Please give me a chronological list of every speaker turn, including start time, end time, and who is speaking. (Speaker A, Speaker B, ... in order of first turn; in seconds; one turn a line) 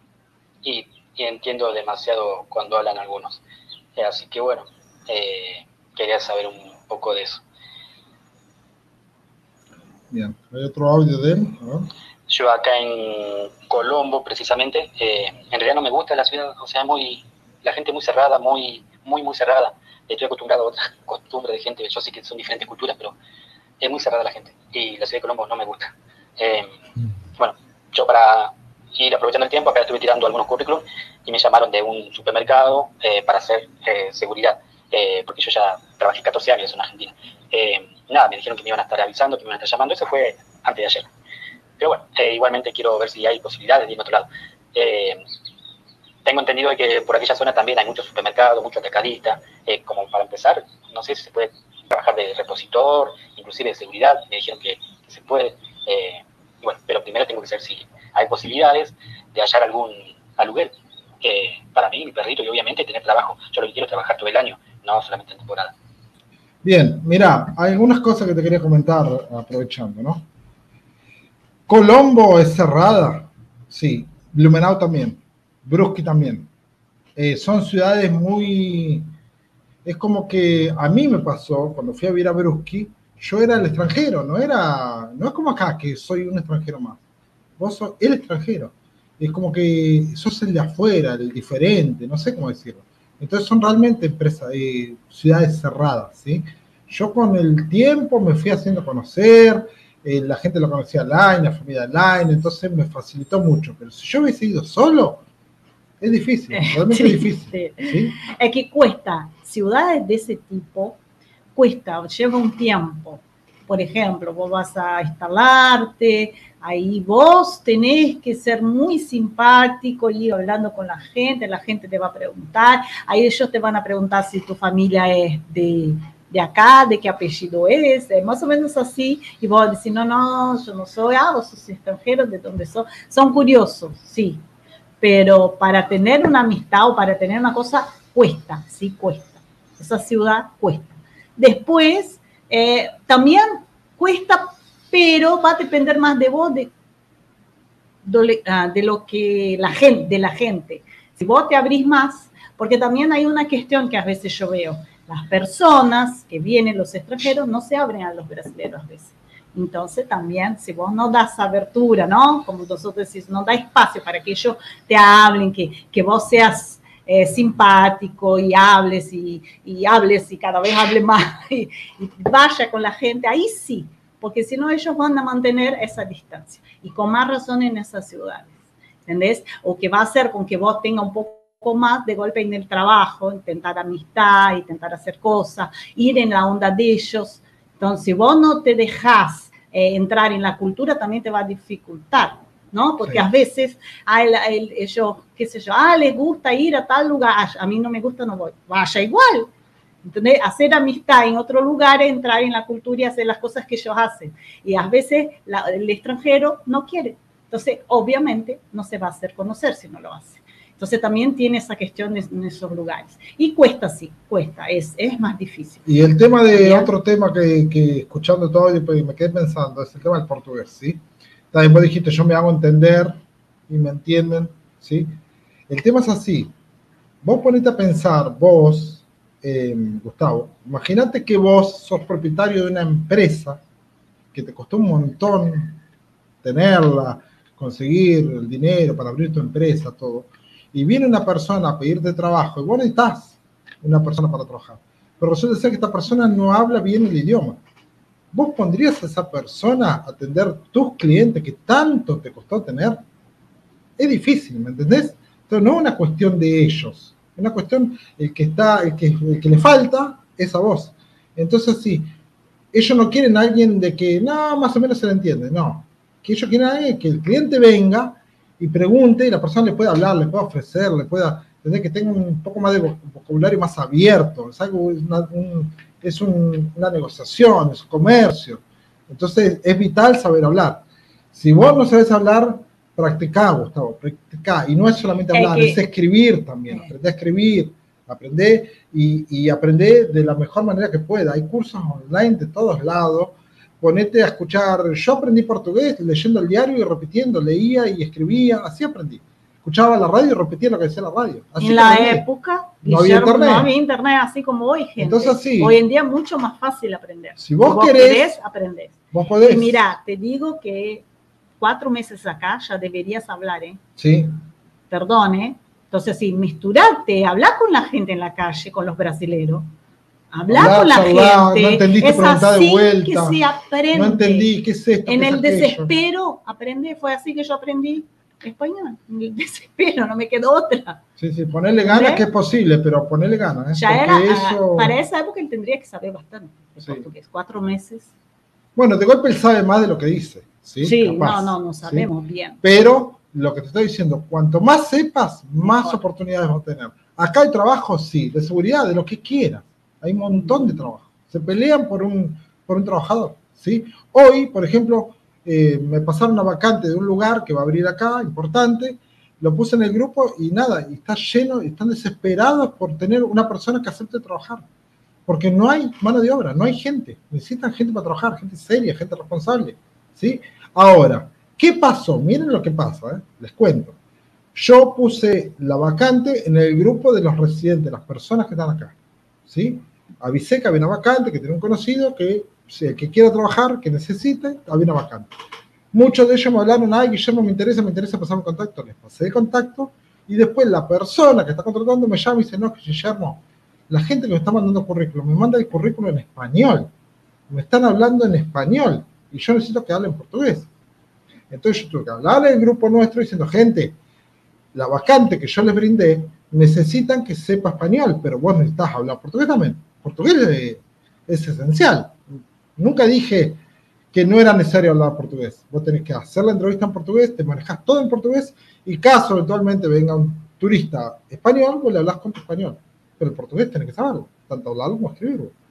Speaker A: 0.6-3.4
Speaker A: 4.0-7.4
Speaker B: 10.1-11.9
Speaker A: 12.3-23.1
Speaker A: 23.8-26.7
Speaker A: 27.4-41.1
Speaker A: 41.8-45.2
Speaker A: 46.2-65.7
Speaker B: 66.6-70.2
Speaker B: 71.7-76.5
Speaker B: 77.2-79.1
Speaker B: 79.8-87.0
Speaker B: 87.6-105.2
Speaker B: 106.0-108.2
Speaker C: 106.5-111.0
Speaker C: 111.5-134.4
Speaker C: 135.0-146.7
Speaker C: 148.0-178.5
Speaker C: 179.1-199.5
Speaker C: 200.0-215.9
Speaker B: 215.8-221.0
Speaker C: 216.5-216.9
Speaker B: 221.5-225.1
Speaker B: 225.7-226.5
Speaker B: 227.2-233.6
Speaker B: 234.3-235.8
Speaker B: 236.4-247.6
Speaker B: 248.3-253.0
Speaker B: 254.0-262.1
Speaker B: 262.7-302.2
Speaker C: 285.3-285.8
Speaker C: 301.6-311.0
Speaker B: 302.8-303.7
Speaker B: 305.0-305.8
Speaker B: 307.4-308.4
Speaker B: 309.1-309.9
Speaker C: 311.6-313.8
Speaker B: 314.0-314.3
Speaker C: 314.9-319.7
Speaker C: 320.3-324.5
Speaker B: 320.5-323.4
Speaker B: 323.9-325.9
Speaker C: 325.1-331.0
Speaker B: 331.2-334.9
Speaker C: 331.9-332.2
Speaker C: 333.7-338.1
Speaker B: 338.8-342.1
Speaker C: 340.8-342.6
Speaker B: 342.6-364.6
Speaker C: 345.6-346.0
Speaker C: 350.3-350.8
Speaker B: 365.3-374.0
Speaker B: 374.5-378.9
Speaker B: 379.5-385.3
Speaker B: 385.9-396.9
Speaker B: 397.5-400.7
Speaker B: 401.5-403.9
Speaker B: 404.7-413.6
Speaker B: 414.1-425.5